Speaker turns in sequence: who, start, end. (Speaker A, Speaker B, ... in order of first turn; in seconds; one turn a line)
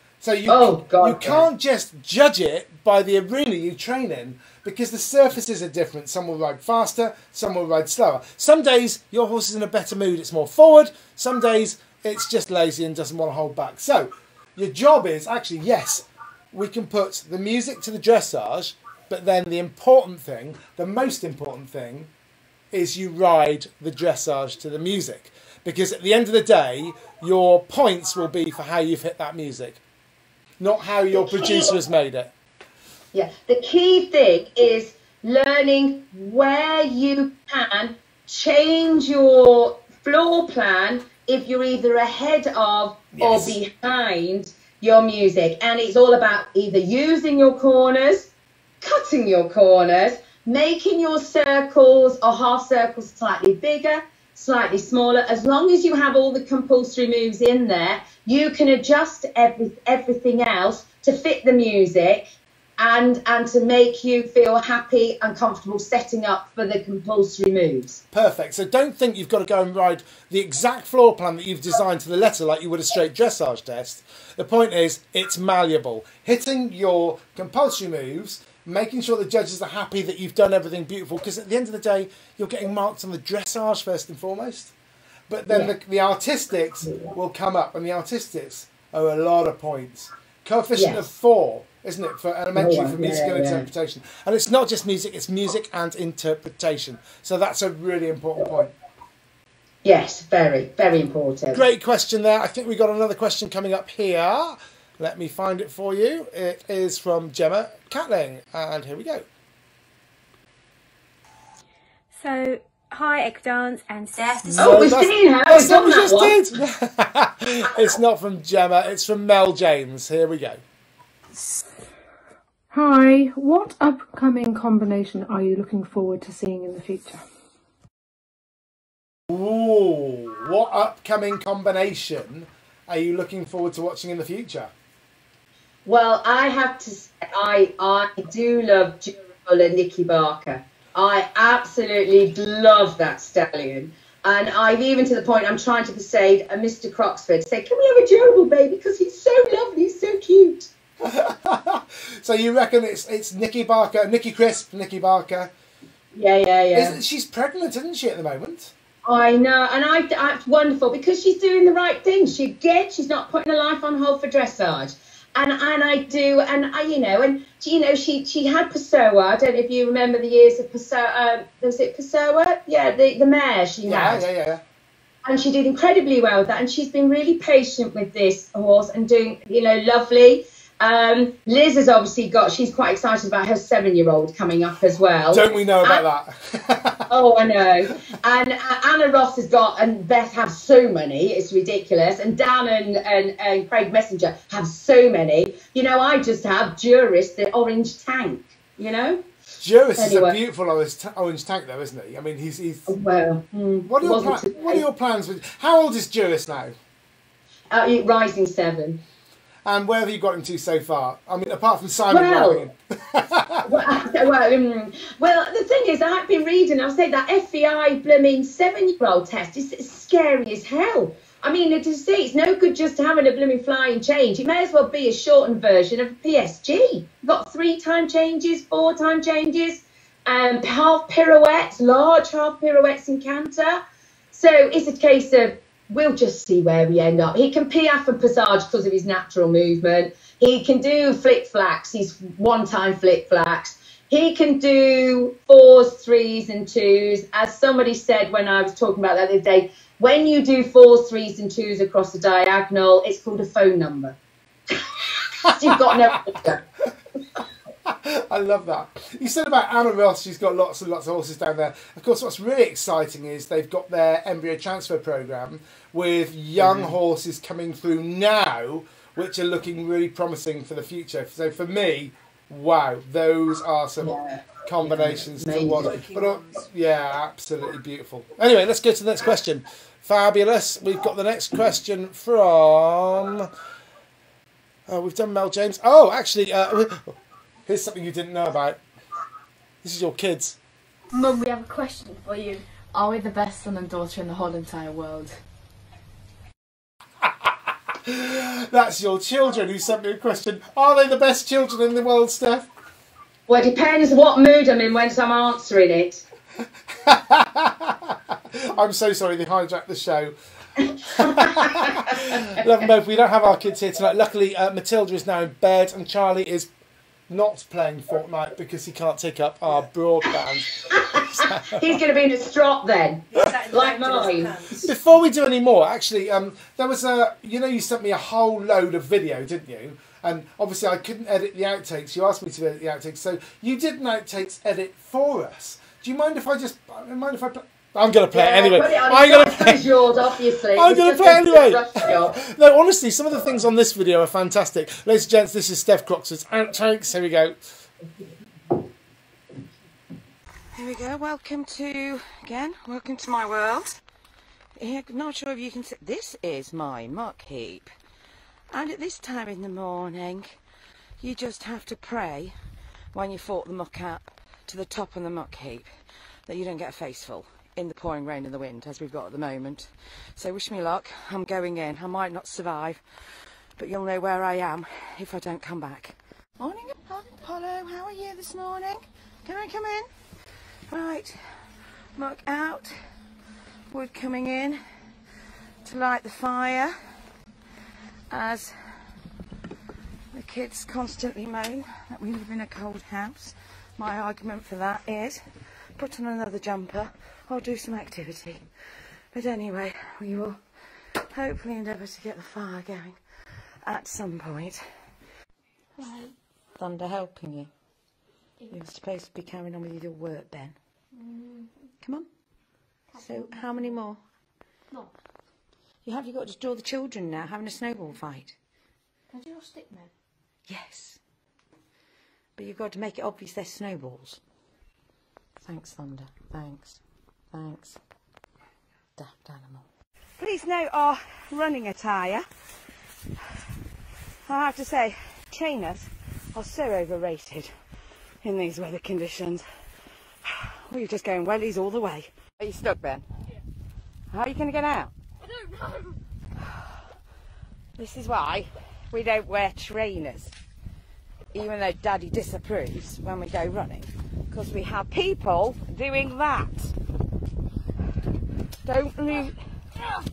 Speaker A: 0.2-22.1
Speaker B: 0.5-1.5
Speaker A: 22.7-29.8
Speaker A: 30.6-32.3
Speaker B: 31.1-31.7
Speaker B: 33.1-68.0
Speaker A: 43.1-43.6
Speaker A: 68.1-84.7
Speaker A: 85.3-98.7
Speaker B: 86.8-87.1
Speaker B: 90.8-91.0
Speaker B: 92.5-93.7
Speaker B: 99.8-101.6
Speaker A: 101.5-109.3
Speaker C: 112.1-114.8
Speaker A: 114.6-120.6
Speaker B: 114.6-116.4
Speaker D: 122.7-127.2
Speaker A: 129.3-134.7
Speaker B: 135.9-150.7
Speaker A: 151.0-155.5
Speaker B: 156.1-157.0
Speaker A: 156.7-158.7
Speaker B: 159.1-174.3
Speaker A: 173.8-174.6
Speaker B: 175.2-186.0
Speaker A: 185.3-187.1
Speaker B: 187.1-199.2
Speaker A: 199.6-202.9
Speaker B: 200.0-200.4
Speaker B: 202.9-204.8
Speaker A: 203.9-206.8
Speaker B: 207.7-209.0
Speaker A: 209.7-213.8
Speaker B: 212.1-212.7
Speaker B: 213.7-233.8
Speaker B: 234.3-254.2
Speaker B: 254.7-256.6
Speaker A: 255.5-256.1
Speaker A: 257.9-283.5
Speaker B: 266.6-266.9
Speaker B: 274.0-276.0
Speaker A: 284.9-287.2
Speaker A: 287.7-288.8
Speaker A: 289.8-290.6
Speaker E: 292.9-295.4
Speaker A: 297.2-302.7
Speaker B: 303.5-306.2
Speaker A: 306.9-310.4
Speaker A: 311.0-316.7
Speaker B: 311.2-312.5
Speaker A: 317.3-321.9
Speaker B: 320.9-324.9
Speaker A: 324.8-339.9
Speaker B: 338.3-342.4
Speaker A: 340.7-347.6
Speaker B: 350.7-354.0
Speaker B: 354.8-357.9
Speaker B: 358.7-360.5
Speaker B: 361.2-362.6
Speaker B: 363.1-365.9
Speaker B: 366.5-373.0
Speaker B: 373.8-380.1
Speaker B: 380.9-381.4
Speaker B: 382.2-382.9
Speaker B: 383.9-384.8
Speaker B: 385.9-387.0
Speaker B: 388.3-388.8
Speaker B: 390.3-395.4
Speaker B: 396.0-398.6
Speaker B: 399.3-400.6
Speaker B: 401.3-403.2
Speaker B: 403.9-404.8
Speaker B: 406.8-407.7
Speaker B: 408.7-410.8
Speaker B: 412.0-412.3
Speaker B: 413.1-414.2
Speaker B: 416.1-418.6
Speaker B: 420.7-421.2
Speaker B: 422.6-424.4
Speaker B: 425.6-427.0
Speaker B: 427.5-428.0
Speaker B: 429.2-429.9
Speaker B: 430.4-432.5
Speaker B: 434.5-437.7
Speaker B: 438.4-439.7
Speaker B: 440.4-443.2
Speaker B: 444.3-445.1
Speaker B: 448.0-450.5
Speaker B: 451.5-456.9
Speaker B: 458.9-459.6